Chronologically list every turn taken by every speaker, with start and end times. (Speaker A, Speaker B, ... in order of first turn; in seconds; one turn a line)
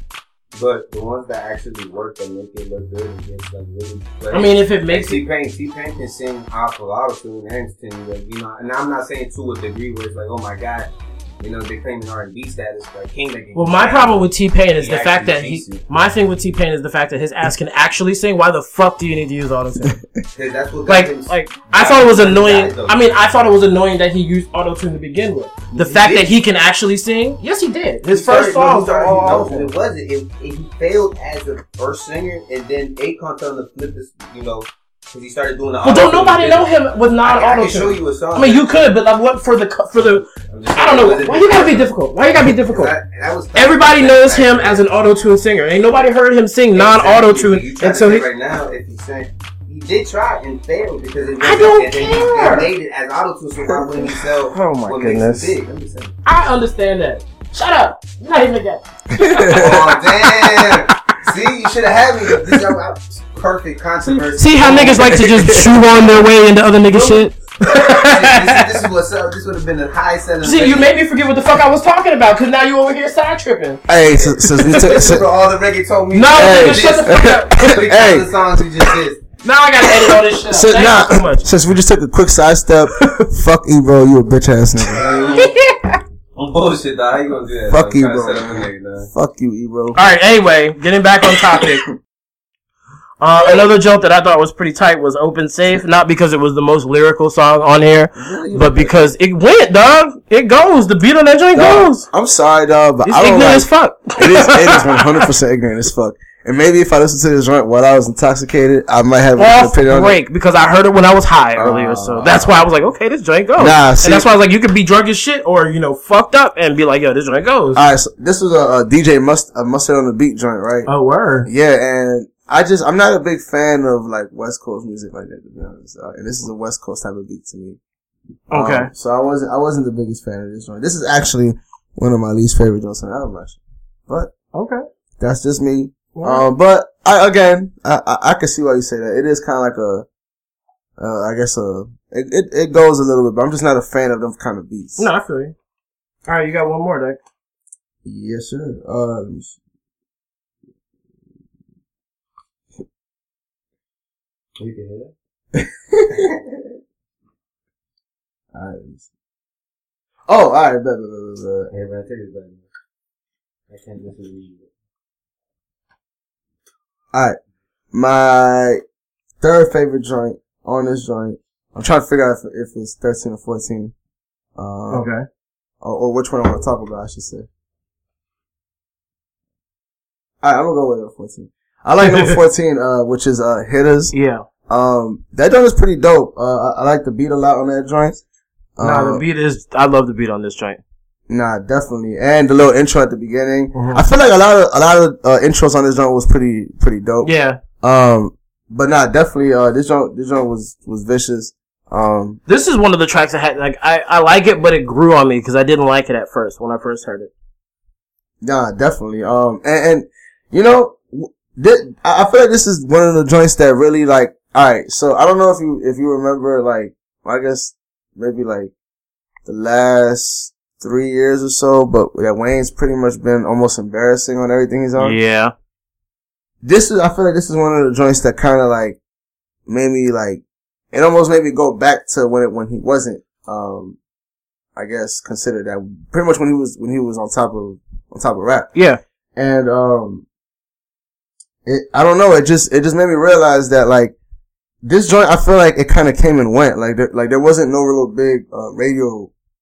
Speaker A: 0.5-15.8
Speaker B: 4.3-5.2
Speaker B: 13.6-20.0
Speaker A: 20.4-23.0
Speaker B: 20.9-29.7
Speaker A: 25.7-26.3
Speaker A: 28.1-38.9
Speaker B: 35.8-42.9
Speaker A: 40.0-41.9
Speaker A: 42.5-44.9
Speaker B: 43.5-48.3
Speaker A: 46.7-56.2
Speaker B: 51.4-52.7
Speaker B: 54.5-55.5
Speaker B: 56.2-59.7
Speaker C: 59.1-60.8
Speaker A: 59.5-65.3
Speaker B: 64.0-68.6
Speaker C: 65.1-65.6
Speaker A: 66.9-70.9
Speaker B: 70.4-73.8
Speaker C: 73.9-75.2
Speaker A: 74.0-79.3
Speaker B: 76.1-77.7
Speaker C: 76.3-78.3
Speaker B: 79.4-81.5
Speaker C: 80.3-85.0
Speaker A: 85.0-85.5
Speaker B: 85.3-86.0
Speaker A: 86.4-89.1
Speaker C: 87.7-90.0
Speaker B: 90.0-91.8
Speaker B: 93.2-102.1
Speaker C: 98.2-99.1
Speaker C: 101.5-110.2
Speaker B: 103.0-105.3
Speaker B: 109.4-117.8
Speaker C: 111.5-112.5
Speaker C: 113.6-114.3
Speaker C: 117.7-120.9
Speaker B: 120.9-121.5
Speaker C: 121.5-127.8
Speaker C: 128.5-134.3
Speaker B: 128.5-128.9
Speaker B: 134.5-134.8
Speaker C: 135.2-140.1
Speaker B: 136.2-136.5
Speaker C: 141.0-145.1
Speaker B: 145.0-145.5
Speaker B: 146.3-147.2
Speaker C: 148.0-149.6
Speaker A: 154.6-155.1
Speaker C: 155.6-156.4
Speaker C: 158.5-159.1
Speaker C: 160.3-161.7
Speaker A: 161.7-162.7
Speaker A: 163.7-164.7
Speaker C: 167.9-168.8
Speaker C: 169.4-173.9
Speaker C: 174.6-175.1
Speaker B: 174.9-175.2
Speaker C: 175.8-177.5
Speaker C: 180.4-184.1
Speaker B: 182.0-182.4
Speaker B: 184.1-184.5
Speaker C: 184.7-188.2
Speaker C: 188.8-189.2
Speaker B: 188.8-190.8
Speaker C: 191.3-202.4
Speaker B: 193.7-194.1
Speaker B: 197.2-197.6
Speaker B: 202.5-207.3
Speaker C: 208.4-218.7
Speaker C: 219.5-225.2
Speaker B: 225.0-225.5
Speaker C: 226.6-229.0
Speaker C: 229.7-234.0
Speaker C: 234.8-238.7
Speaker B: 238.8-239.0
Speaker C: 239.4-240.2
Speaker C: 241.7-244.2
Speaker C: 244.8-249.3